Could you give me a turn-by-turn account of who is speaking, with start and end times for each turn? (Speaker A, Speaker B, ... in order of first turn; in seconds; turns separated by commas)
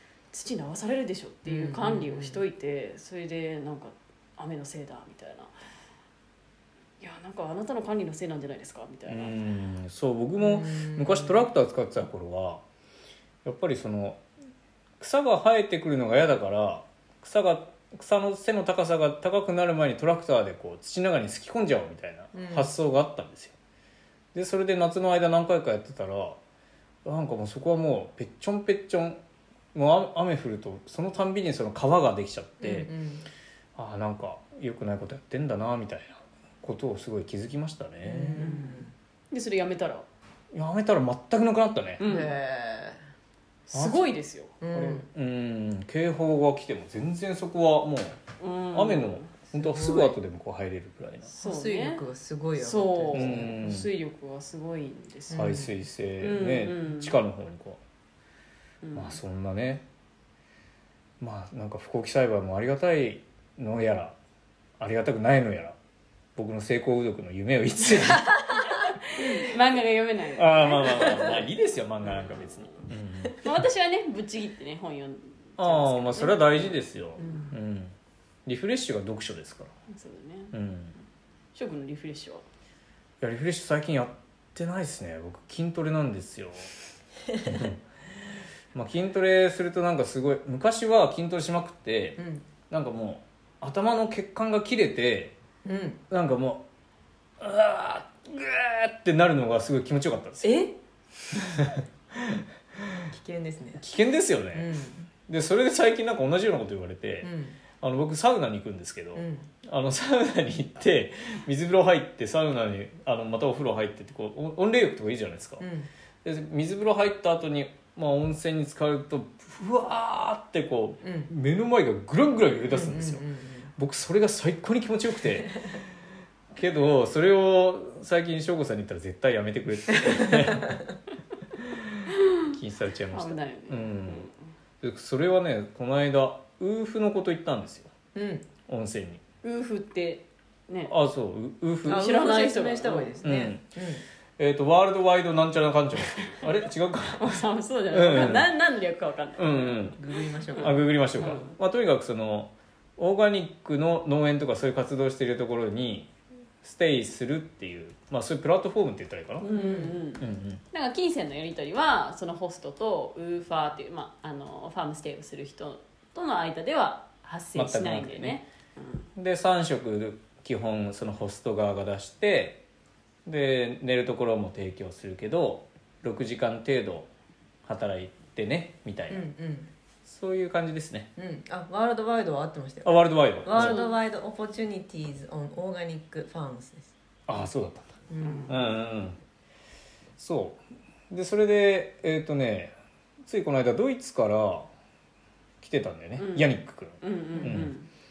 Speaker A: 0.3-5.5, Speaker B: 1.5-2.4, Speaker A: 7.0-9.4, Speaker C: 9.1-12.6, Speaker B: 10.4-11.4, Speaker C: 13.4-14.2, Speaker C: 15.0-23.6, Speaker B: 22.3-22.7, Speaker C: 24.3-26.4, Speaker C: 27.1-29.2, Speaker C: 29.7-32.9, Speaker B: 32.6-33.3, Speaker C: 33.8-38.5, Speaker B: 38.0-38.9, Speaker A: 38.4-40.1, Speaker C: 40.5-42.0, Speaker A: 42.0-42.3, Speaker B: 42.0-43.0, Speaker A: 43.7-44.7, Speaker C: 43.7-44.1, Speaker B: 44.6-45.1, Speaker C: 44.7-48.2, Speaker A: 48.4-49.3, Speaker C: 48.7-51.3, Speaker B: 49.5-50.2, Speaker B: 51.3-53.8, Speaker A: 51.4-52.0, Speaker A: 52.6-57.1, Speaker C: 53.1-53.9, Speaker B: 55.3-55.7, Speaker C: 55.3-57.8, Speaker A: 58.8-59.2, Speaker C: 58.9-59.9, Speaker C: 61.2-64.2, Speaker C: 64.8-65.8, Speaker C: 66.4-68.5, Speaker A: 68.5-71.4, Speaker C: 70.3-73.6, Speaker A: 73.4-76.8, Speaker C: 75.6-77.9, Speaker B: 77.2-77.5, Speaker C: 78.5-79.7, Speaker A: 79.9-80.5, Speaker C: 80.5-80.9, Speaker A: 81.5-82.5, Speaker C: 83.2-86.7, Speaker B: 87.3-87.6, Speaker C: 87.4-87.8, Speaker C: 88.7-92.2, Speaker B: 92.2-92.5, Speaker C: 92.7-95.3, Speaker B: 95.7-96.0, Speaker C: 96.1-96.6, Speaker C: 97.4-100.6, Speaker B: 100.4-100.8, Speaker C: 101.4-103.1, Speaker B: 103.1-103.8, Speaker C: 103.8-115.7, Speaker B: 104.5-105.0, Speaker B: 107.2-107.6, Speaker B: 109.2-109.5, Speaker B: 115.6-115.9, Speaker C: 116.2-125.8, Speaker B: 121.0-121.3, Speaker B: 122.7-123.7, Speaker C: 126.5-130.8, Speaker B: 130.1-130.8, Speaker C: 131.6-134.3, Speaker A: 132.1-132.5, Speaker A: 133.1-134.4, Speaker C: 134.8-137.9, Speaker B: 138.2-138.5, Speaker C: 138.7-139.2, Speaker A: 139.4-140.9, Speaker C: 140.9-142.1, Speaker A: 141.8-143.2, Speaker B: 141.8-144.0, Speaker C: 143.2-143.6, Speaker C: 144.4-148.5, Speaker A: 147.2-150.0, Speaker C: 149.4-150.0, Speaker B: 150.0-150.9, Speaker A: 150.5-151.6, Speaker C: 150.6-156.1, Speaker C: 156.6-159.5, Speaker A: 159.4-169.1, Speaker B: 159.5-160.0, Speaker C: 160.2-160.6, Speaker C: 167.6-168.4, Speaker C: 169.2-172.6, Speaker C: 173.2-177.1, Speaker C: 177.7-179.3, Speaker B: 179.1-179.7, Speaker C: 180.1-181.1, Speaker B: 181.2-186.9, Speaker C: 182.8-183.8, Speaker A: 183.5-183.9, Speaker C: 187.3-188.0, Speaker B: 188.1-188.6, Speaker A: 188.2-188.6, Speaker C: 188.5-189.2, Speaker C: 190.2-192.7, Speaker C: 193.2-194.7, Speaker C: 195.6-197.7, Speaker A: 196.2-197.9, Speaker B: 197.4-197.7